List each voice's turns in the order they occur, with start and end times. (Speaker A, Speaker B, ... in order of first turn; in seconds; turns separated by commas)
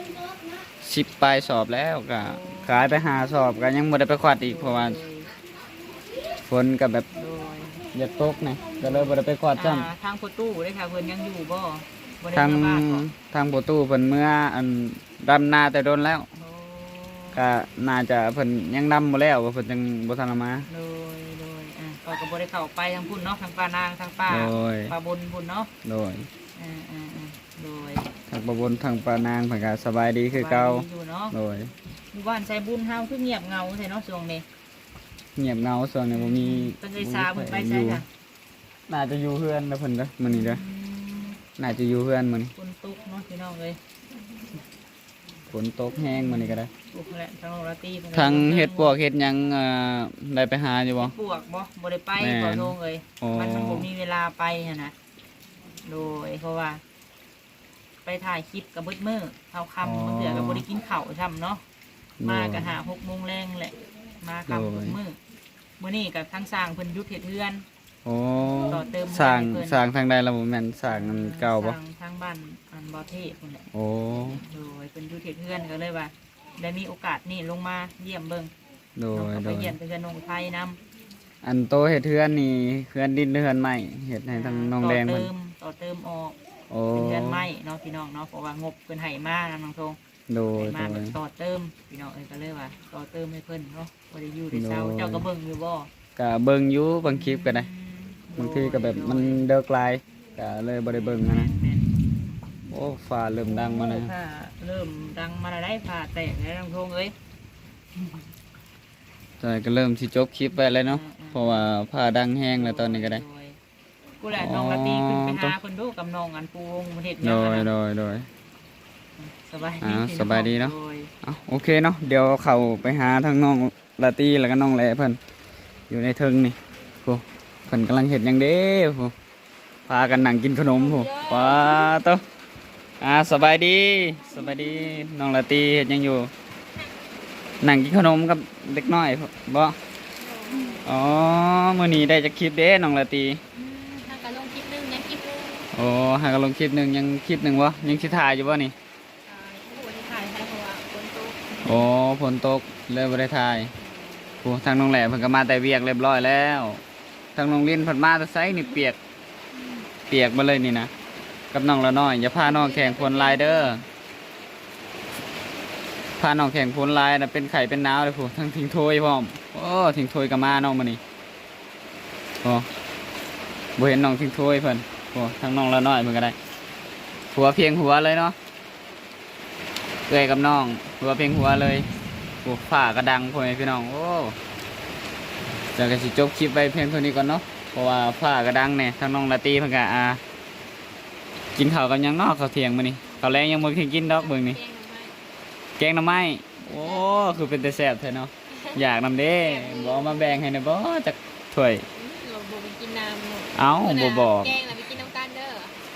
Speaker A: 0.8-5.0, Speaker B: 2.2-3.1, Speaker B: 4.4-5.3, Speaker A: 6.5-7.0, Speaker B: 7.1-7.8, Speaker A: 7.9-9.9, Speaker B: 8.8-13.1, Speaker A: 12.3-16.2, Speaker B: 16.4-17.4, Speaker A: 17.3-20.7, Speaker B: 20.7-25.7, Speaker A: 24.3-24.9, Speaker A: 25.8-26.3, Speaker B: 26.5-28.1, Speaker A: 28.3-31.7, Speaker B: 30.3-31.3, Speaker B: 32.1-34.4, Speaker A: 35.4-38.0, Speaker B: 36.1-38.0, Speaker A: 38.9-40.6, Speaker B: 40.3-41.4, Speaker A: 41.6-42.5, Speaker B: 42.5-43.8, Speaker A: 45.5-46.7, Speaker B: 46.3-48.9, Speaker A: 48.1-51.1, Speaker B: 51.0-54.9, Speaker A: 52.2-53.9, Speaker B: 55.8-56.8, Speaker B: 58.0-61.6, Speaker A: 59.8-60.6, Speaker A: 62.2-62.7, Speaker B: 62.2-65.2, Speaker A: 64.5-65.0, Speaker B: 65.8-67.7, Speaker A: 68.0-71.8, Speaker B: 68.7-69.8, Speaker B: 70.9-73.6, Speaker A: 73.7-74.4, Speaker B: 74.2-78.5, Speaker A: 79.0-79.8, Speaker B: 79.1-80.8, Speaker A: 81.4-85.3, Speaker B: 84.3-86.3, Speaker A: 86.7-87.5, Speaker B: 86.9-90.0, Speaker A: 90.3-91.2, Speaker B: 90.6-95.9, Speaker A: 94.5-95.3, Speaker A: 96.2-97.7, Speaker B: 97.0-99.5, Speaker A: 98.3-101.5, Speaker B: 100.9-101.9, Speaker A: 102.7-104.1, Speaker B: 103.5-107.1, Speaker A: 109.4-113.2, Speaker B: 110.7-111.6, Speaker B: 112.5-113.6, Speaker B: 114.2-117.7, Speaker A: 114.3-115.6, Speaker A: 117.2-118.3, Speaker B: 119.2-121.1, Speaker A: 119.8-125.2, Speaker A: 125.9-129.1, Speaker A: 129.9-132.2, Speaker C: 130.7-131.9, Speaker A: 133.0-136.3, Speaker A: 137.6-139.8, Speaker C: 140.2-140.9, Speaker A: 140.8-143.4, Speaker C: 143.6-145.7, Speaker A: 145.7-148.7, Speaker C: 149.3-151.7, Speaker A: 151.6-153.7, Speaker A: 154.4-156.8, Speaker A: 157.3-159.0, Speaker A: 160.1-160.9, Speaker A: 161.5-163.8, Speaker C: 162.4-163.8, Speaker A: 166.2-171.0, Speaker A: 172.4-172.7, Speaker A: 173.8-176.3, Speaker A: 177.3-178.3, Speaker A: 180.1-181.8, Speaker A: 182.4-184.3, Speaker A: 185.7-190.2, Speaker A: 191.5-194.6, Speaker C: 194.0-195.1, Speaker A: 195.8-201.9, Speaker C: 196.7-197.5, Speaker C: 199.4-200.4, Speaker C: 201.9-205.8, Speaker A: 203.5-204.6